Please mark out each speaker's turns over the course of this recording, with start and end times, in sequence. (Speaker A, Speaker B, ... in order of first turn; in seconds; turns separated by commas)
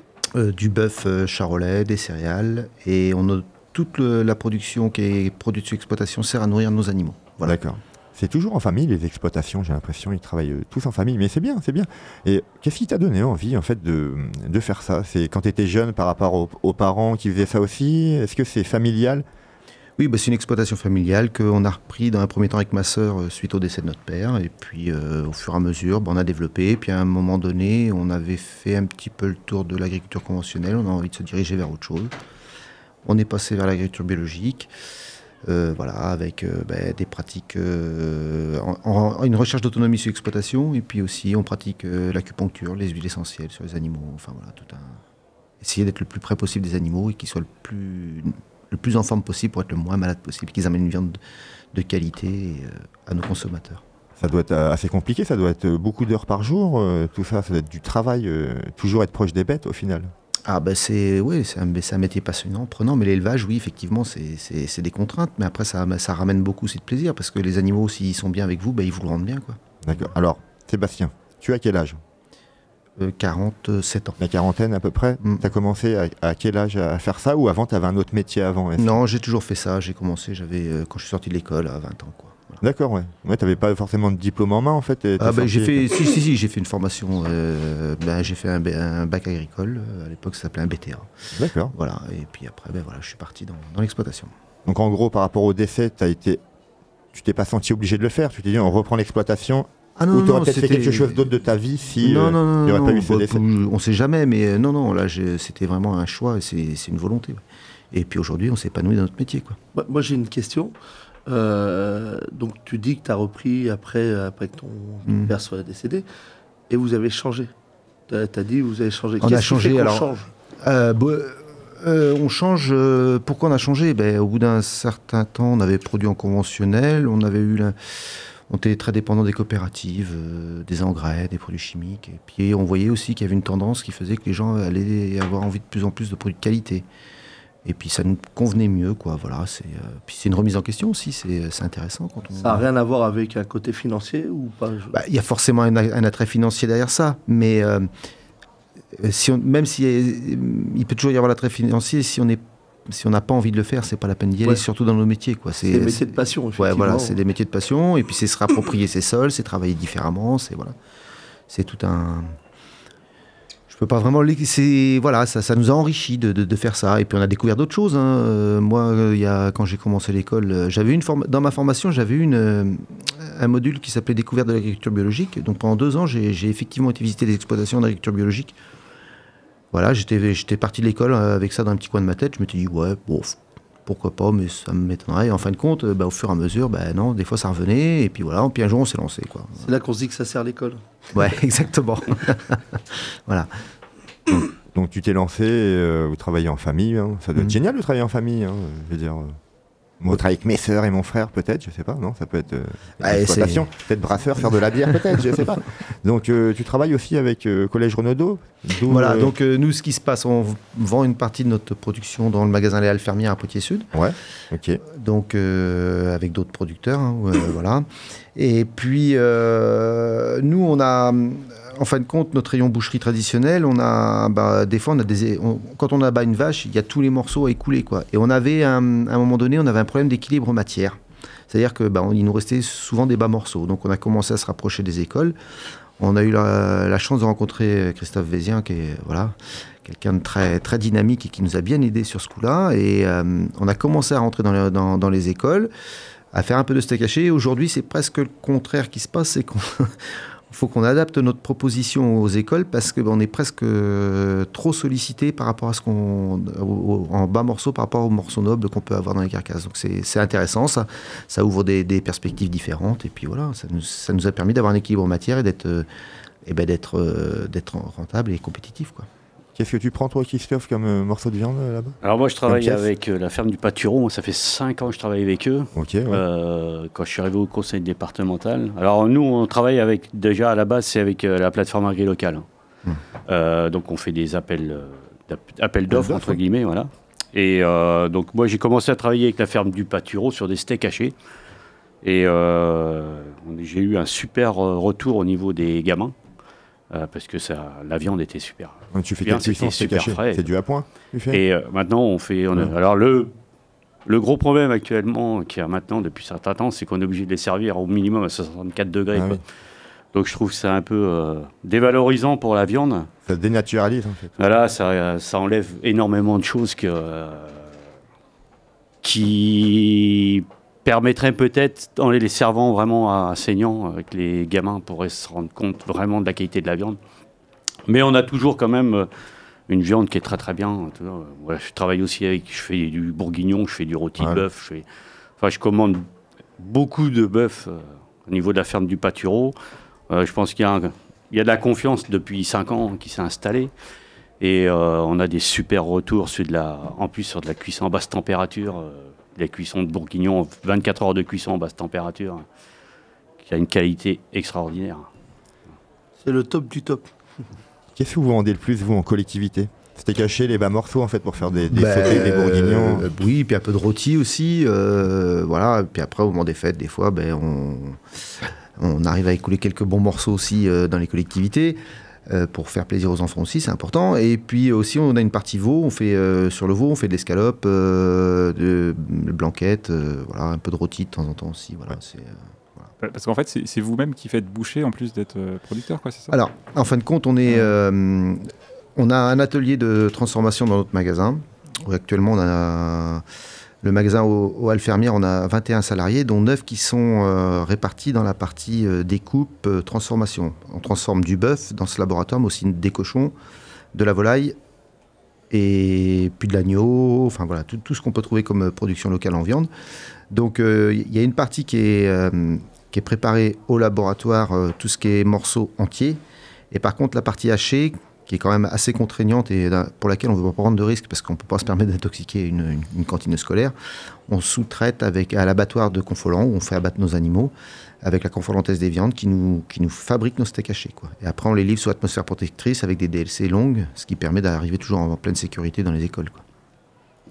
Speaker A: 0.3-7.6, Speaker B: 7.4-19.2, Speaker A: 20.0-32.1, Speaker A: 33.0-34.7, Speaker A: 35.4-45.0, Speaker A: 45.6-51.2, Speaker A: 51.7-53.8, Speaker B: 54.2-60.1, Speaker A: 60.5-70.0, Speaker B: 69.8-72.0, Speaker A: 73.0-74.2, Speaker B: 74.2-79.0, Speaker A: 75.2-75.5, Speaker A: 78.8-82.6, Speaker B: 82.6-85.9, Speaker A: 85.2-91.1, Speaker B: 91.3-91.7, Speaker A: 91.7-94.3, Speaker B: 94.7-96.4, Speaker B: 97.1-103.4, Speaker A: 100.0-101.3, Speaker A: 102.0-109.6, Speaker C: 109.8-110.7, Speaker C: 111.3-116.0, Speaker A: 115.1-115.3, Speaker C: 116.7-117.5, Speaker C: 118.1-120.3, Speaker A: 119.2-120.1, Speaker A: 120.6-136.9, Speaker A: 137.6-142.6, Speaker C: 142.4-145.0, Speaker A: 144.9-147.9, Speaker A: 148.9-160.8, Speaker C: 155.7-157.2, Speaker A: 161.5-162.3, Speaker A: 163.7-178.6, Speaker A: 179.7-189.7, Speaker C: 189.6-190.8, Speaker A: 191.1-193.5, Speaker B: 194.7-199.4, Speaker B: 200.0-209.3, Speaker A: 203.0-203.7, Speaker A: 208.9-213.9, Speaker B: 213.9-214.8, Speaker A: 214.8-231.0, Speaker A: 231.5-235.3, Speaker A: 236.0-245.7, Speaker A: 246.3-265.9, Speaker A: 266.4-269.1, Speaker B: 269.6-272.9, Speaker D: 272.0-282.4, Speaker B: 275.8-276.2, Speaker D: 283.3-291.1, Speaker B: 285.9-286.4, Speaker D: 292.0-296.1, Speaker D: 296.9-300.4, Speaker B: 298.9-301.4, Speaker D: 301.3-303.3, Speaker D: 304.1-309.4, Speaker B: 309.1-309.4, Speaker D: 310.1-313.1, Speaker B: 313.2-314.4, Speaker D: 314.4-317.7, Speaker D: 319.0-327.0, Speaker D: 327.9-329.1, Speaker D: 329.7-334.9, Speaker B: 334.2-334.4, Speaker D: 335.4-336.1, Speaker D: 336.6-339.6, Speaker D: 340.1-343.7, Speaker D: 344.4-352.4, Speaker D: 353.4-355.1, Speaker C: 356.2-357.1, Speaker B: 357.9-363.1, Speaker A: 361.7-368.0, Speaker A: 368.8-382.9, Speaker E: 383.0-386.4, Speaker A: 386.3-393.2, Speaker A: 393.8-403.3, Speaker A: 403.9-404.6, Speaker A: 405.5-409.7, Speaker A: 410.3-416.2, Speaker A: 416.7-423.8, Speaker A: 424.3-427.5, Speaker A: 428.0-436.4